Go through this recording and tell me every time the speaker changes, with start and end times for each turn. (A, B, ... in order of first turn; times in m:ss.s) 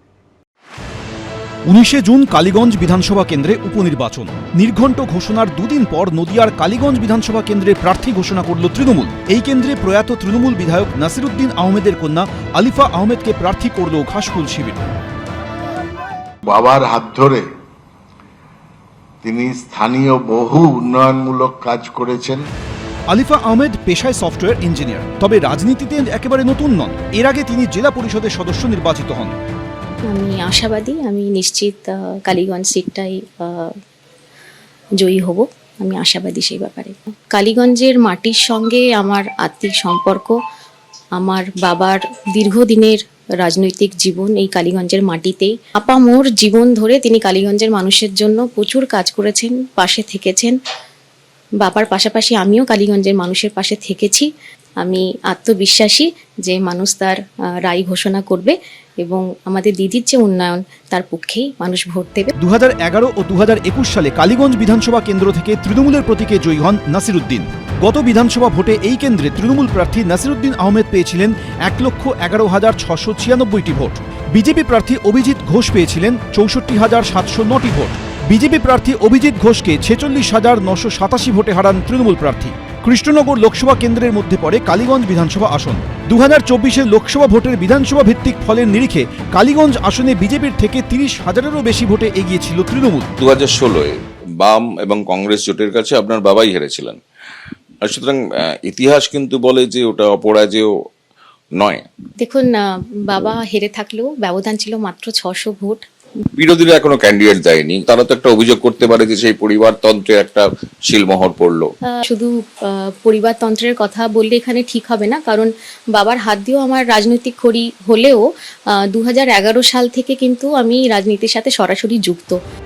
0:01.7-0:14.8 A
0:16.4-0:17.5 B
0:19.2-0:22.4 B
0:23.1-0:29.3 A
0:30.1-0:33.7 C
0:35.0-0:40.3 C
0:41.2-0:50.6 C
0:51.6-0:54.3 C
0:54.8-1:02.3 C
1:02.4-1:33.1 A
1:33.2-1:37.0 D
1:37.8-1:40.7 D
1:41.5-1:41.9 D
1:42.2-1:45.8 C
1:46.4-1:51.7 D
1:52.0-1:58.2 C
1:58.9-2:02.4 C